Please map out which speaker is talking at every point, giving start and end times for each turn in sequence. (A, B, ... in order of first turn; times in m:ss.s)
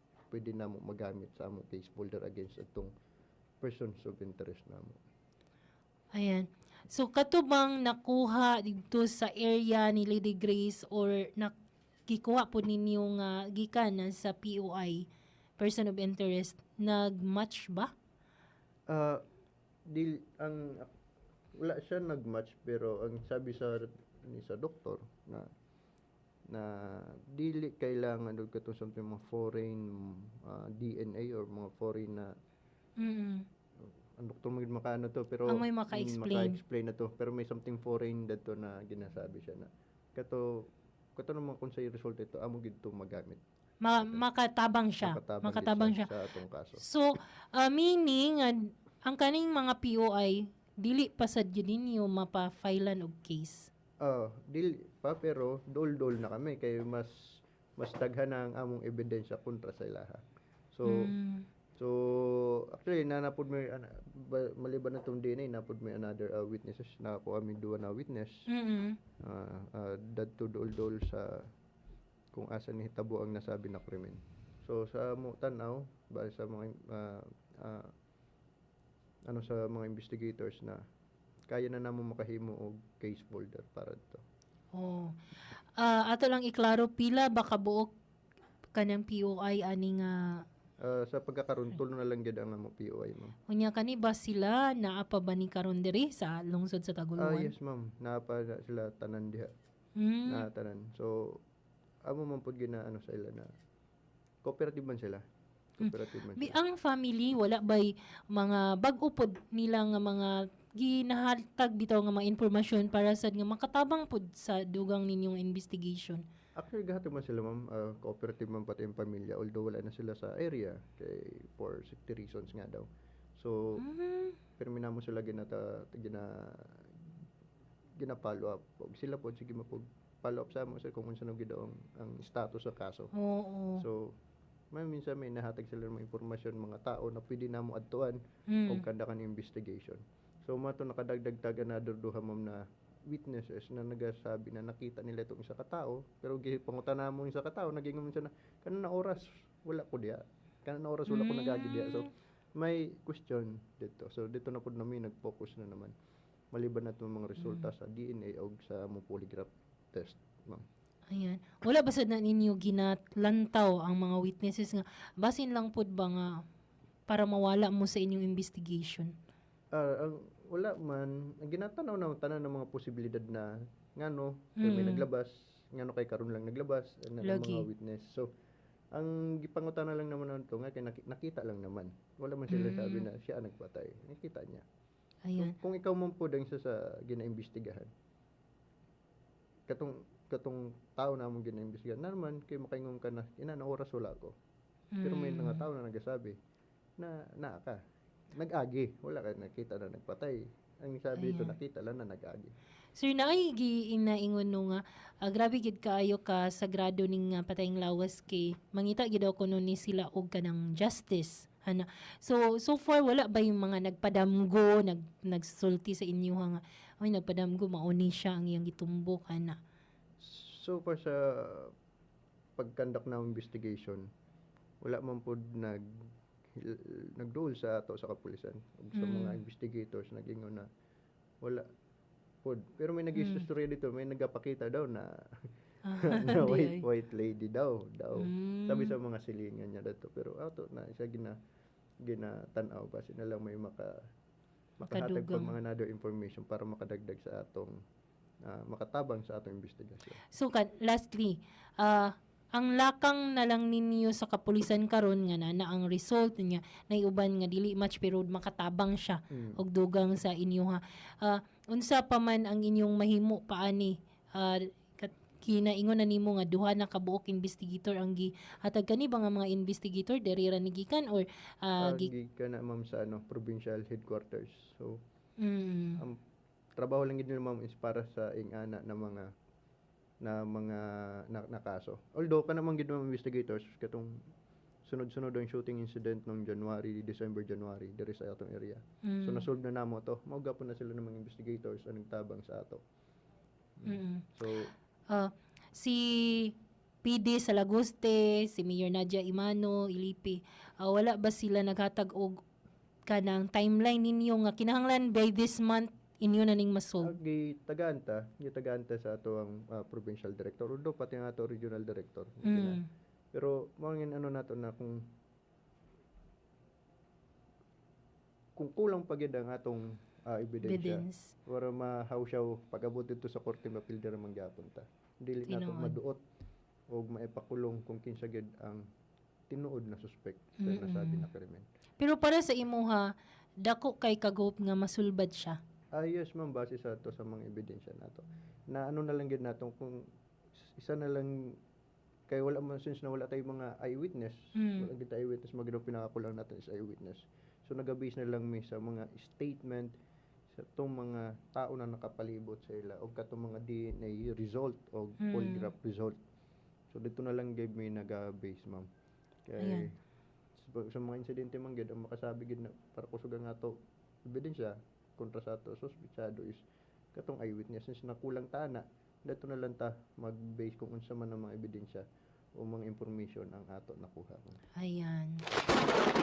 0:00.3-0:02.9 A
0:03.6-0:05.0 A
0:06.1-0:11.5 B
0:12.1-0:15.0 B
0:15.6-0:17.9 B
0:18.9-0:19.2 A
0:19.9-0:20.9 A
0:21.6-0:25.5 A
0:26.5-0:32.3 A
0:33.0-0:33.4 B
0:33.8-0:40.5 A
0:35.5-0:36.6 B
0:41.2-0:43.4 A
0:43.8-0:46.1 B
0:44.0-0:44.2 A
0:45.0-0:46.8 A
0:46.8-0:53.7 B
0:54.0-0:57.1 A
0:57.8-1:01.1 A
1:00.8-1:01.4 B
1:01.8-1:08.3 A
1:08.5-1:09.0 B
1:09.2-1:11.4 A
1:12.3-1:17.9 A
1:19.3-1:20.8 A
1:21.5-1:24.2 A
1:24.7-1:25.1 B
1:25.8-1:27.9 B
1:28.7-1:30.4 B
1:30.8-1:33.3 A
1:33.5-1:37.5 B
1:37.2-1:39.5 A
1:40.0-1:40.4 B
1:40.3-1:41.4 A
1:42.1-1:43.5 A
1:44.4-1:45.2 A
1:45.8-1:46.6 A
1:45.8-1:56.2 B
1:56.6-2:02.8 A
2:03.4-2:03.8 A
2:03.8-2:04.4 B
2:04.6-2:06.8 A
2:08.0-2:13.1 A
2:13.1-2:13.8 B
2:13.8-2:14.1 A
2:14.7-2:35.9 A
2:18.5-2:18.8 B
2:31.1-2:32.1 B
2:36.5-2:40.6 A
2:37.4-2:37.7 B
2:41.1-2:46.3 B
2:47.1-2:49.1 B
2:49.7-2:58.3 A
2:54.6-2:55.1 B
2:57.2-2:57.6 B
2:58.9-3:04.6 A
3:02.5-3:03.1 B
3:05.2-3:05.5 B
3:05.4-3:07.9 A
3:09.7-3:14.3 A
3:14.9-3:15.6 B
3:15.0-3:16.4 A
3:17.0-3:17.8 A
3:18.3-3:22.5 A
3:21.2-3:21.6 B
3:23.0-3:39.6 B
3:40.2-3:41.7 A
3:42.6-3:44.0 A
3:44.8-3:45.8 A
3:46.6-3:50.7 A
3:48.9-3:49.4 B
3:52.4-3:55.2 A
3:53.1-3:53.4 B
3:55.8-3:56.8 B
3:56.0-4:01.4 A
3:58.2-3:58.9 B
4:02.0-4:04.0 A
4:04.8-4:07.8 A
4:04.8-4:05.5 B
4:08.5-4:10.2 A
4:10.3-4:32.1 B
4:19.3-4:19.6 A
4:31.8-4:35.0 A
4:35.4-4:36.0 B
4:36.8-4:39.3 A
4:40.2-4:44.1 A
4:44.9-4:52.8 A
4:49.0-4:49.4 B
4:53.8-4:54.7 A
4:53.8-4:54.3 B
4:55.1-5:02.4 B
5:03.1-5:07.1 B
5:07.0-5:12.8 A
5:12.4-5:12.9 B
5:13.3-5:15.0 A
5:18.6-5:26.2 A
5:20.6-5:21.3 B
5:25.4-5:26.0 B
5:26.9-5:28.8 A
5:29.5-5:31.6 A
5:30.6-5:31.3 B
5:32.0-5:33.1 B
5:33.6-5:35.6 B
5:36.0-5:40.0 A
5:40.6-5:41.3 A
5:42.3-5:49.9 A
5:44.5-5:44.9 B
5:50.5-5:56.2 A
5:55.2-5:55.7 B
5:56.9-5:58.9 A
5:59.4-5:59.9 A
5:59.6-5:59.9 B
6:00.6-6:03.7 A
6:04.3-6:06.6 A
6:07.1-6:12.0 A
6:12.6-6:14.6 A
6:14.8-6:15.4 B